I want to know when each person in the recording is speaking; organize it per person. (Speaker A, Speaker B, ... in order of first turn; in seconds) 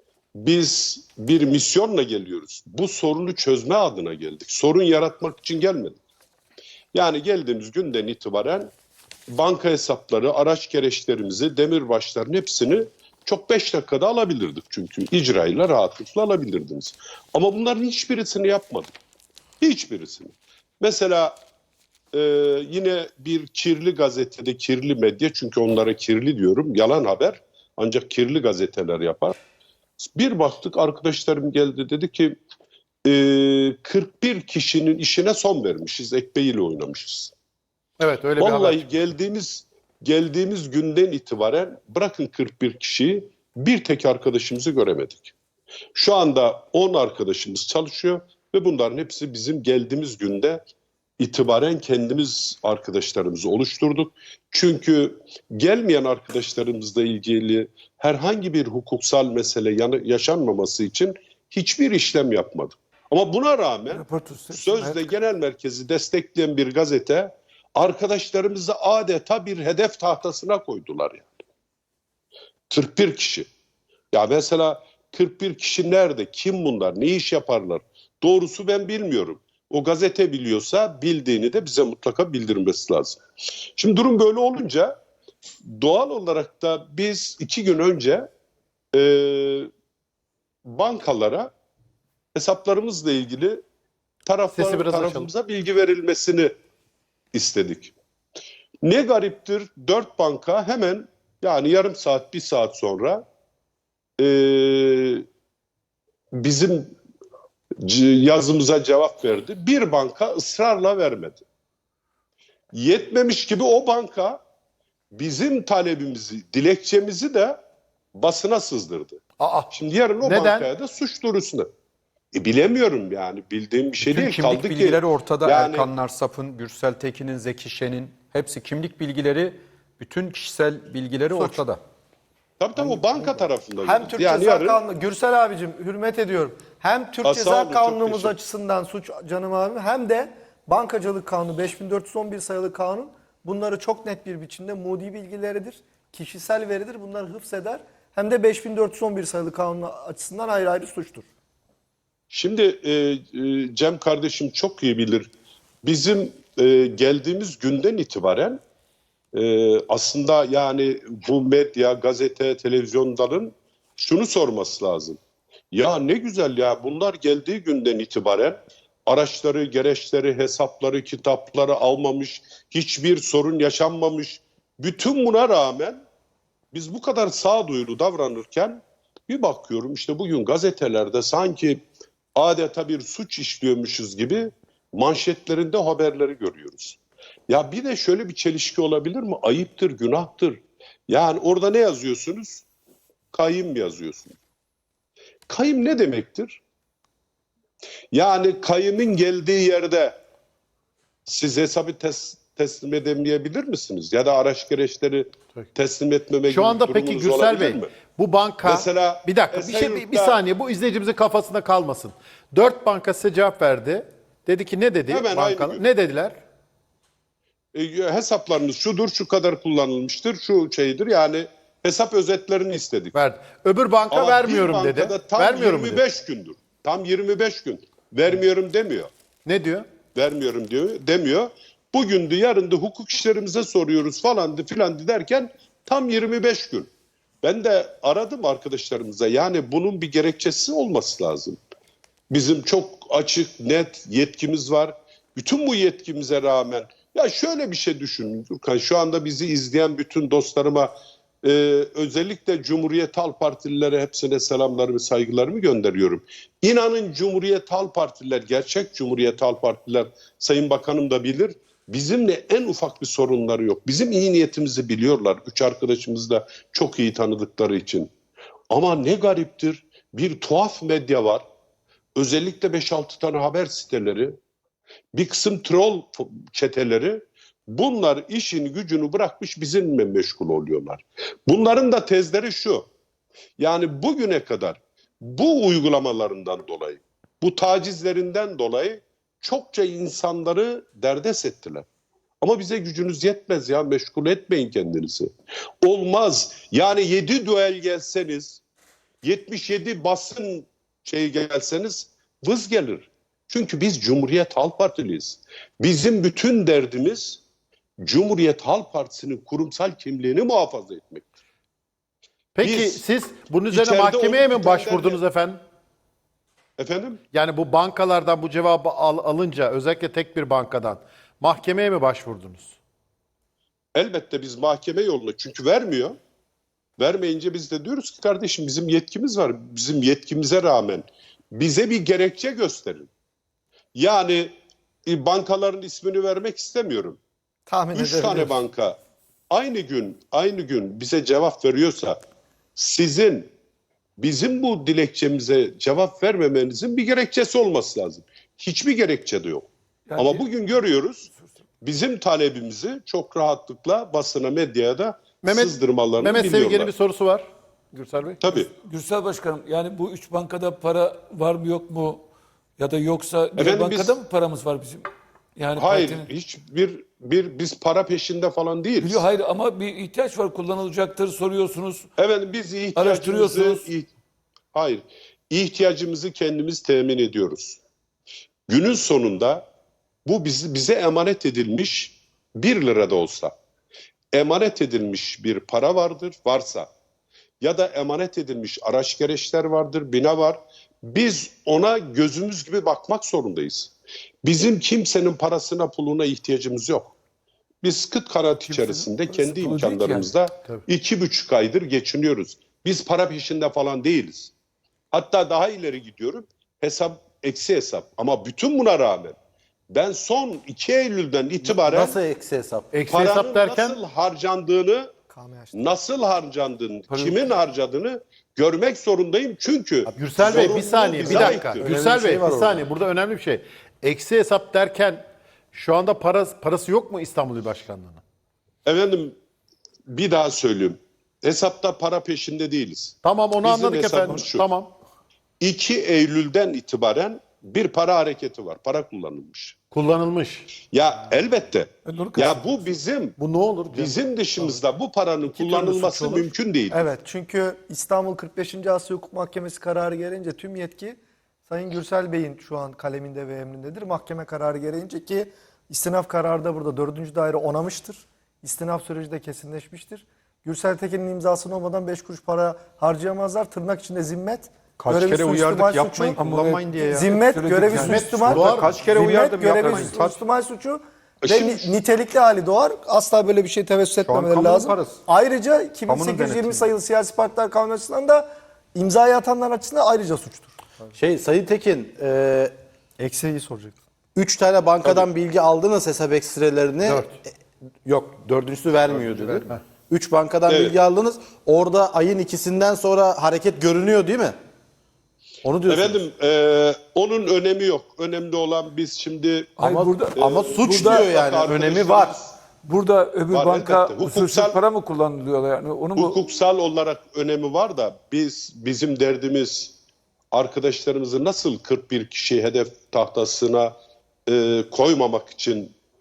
Speaker A: 0.4-6.0, 6.9-8.7, 9.3-18.9, 19.6-21.4, 22.1-29.4, 30.0-32.4, 33.0-37.3, 38.4-45.3, 45.9-50.6, 51.2-71.3, 72.7-73.5, 74.1-83.2, 83.8-85.0, 85.7-88.3, 88.9-89.7, 90.7-91.5, 92.3-93.6, 94.3-96.5, 97.3-97.9, 98.8-103.2, 104.2-105.2, 106.3-107.0, 107.8-111.4, 112.7-114.4, 115.1-117.6, 118.2-121.7, 122.3-125.9, 132.6-134.8, 137.2-138.4, 152.3-155.3, 155.8-158.6, 159.3-165.2, 165.7-176.0, 176.7-181.8, 182.4-192.7, 193.3-194.4, 195.5-196.6, 198.1-200.2, 201.3-207.9, 208.6-210.4, 215.1-215.8, 217.7-223.2, 224.1-229.1, 230.2-236.9, 237.4-241.6, 242.3-268.1, 268.7-271.4, 272.2-274.4, 275.1-282.9, 283.6-291.9, 292.4-295.3, 295.8-298.6, 299.2-307.4, 308.0-311.3, 312.6-313.0, 313.7-315.2, 316.8-317.2, 323.9-326.2, 327.0-333.1, 333.9-334.5, 335.1-337.2, 337.9-339.0, 339.5-342.2, 342.8-343.5, 344.2-351.3, 351.8-356.9, 358.4-358.7, 363.6-364.2, 365.8-369.2, 372.2-374.1, 374.7-377.8, 378.7-379.7, 380.2-383.5, 384.3-386.9, 387.6-397.1, 397.8-404.5, 405.1-409.4, 409.9-412.2, 413.1-415.1, 415.7-421.9, 428.9-429.4, 430.1-434.7, 435.6-439.8, 440.9-447.1, 471.4-471.9, 490.7-491.0, 495.9-499.8, 500.4-502.5, 503.5-504.8, 506.2-509.9, 510.5-514.0, 514.5-516.0
Speaker B: 38.0-39.1, 94.5-95.3, 119.4-120.7, 206.5-216.4, 223.1-226.0, 229.4-229.9, 312.6-315.6, 317.3-322.8, 355.4-358.4, 412.9-414.0, 420.1-428.2, 433.2-434.9, 439.9-440.7, 443.4-444.8, 445.6-446.5, 467.9-468.9
Speaker C: 63.9-65.1, 350.1-350.5, 358.5-362.2, 362.8-366.3, 369.0-372.1, 372.9-373.9, 398.7-400.3, 417.1-417.5, 442.1-442.6, 466.4-469.2, 469.8-470.2, 499.8-501.3, 502.8-506.4
Speaker D: 124.0-131.8, 465.0-467.3, 468.7-470.4, 474.3-475.2, 476.1-476.9
Speaker E: 133.8-151.3, 337.7-338.6, 415.3-415.8, 446.9-466.4, 467.0-480.8, 483.2-484.0
Speaker F: 411.6-412.9, 421.2-422.9, 481.1-482.7, 484.4-487.5, 488.1-494.6, 495.6-496.2, 499.8-502.4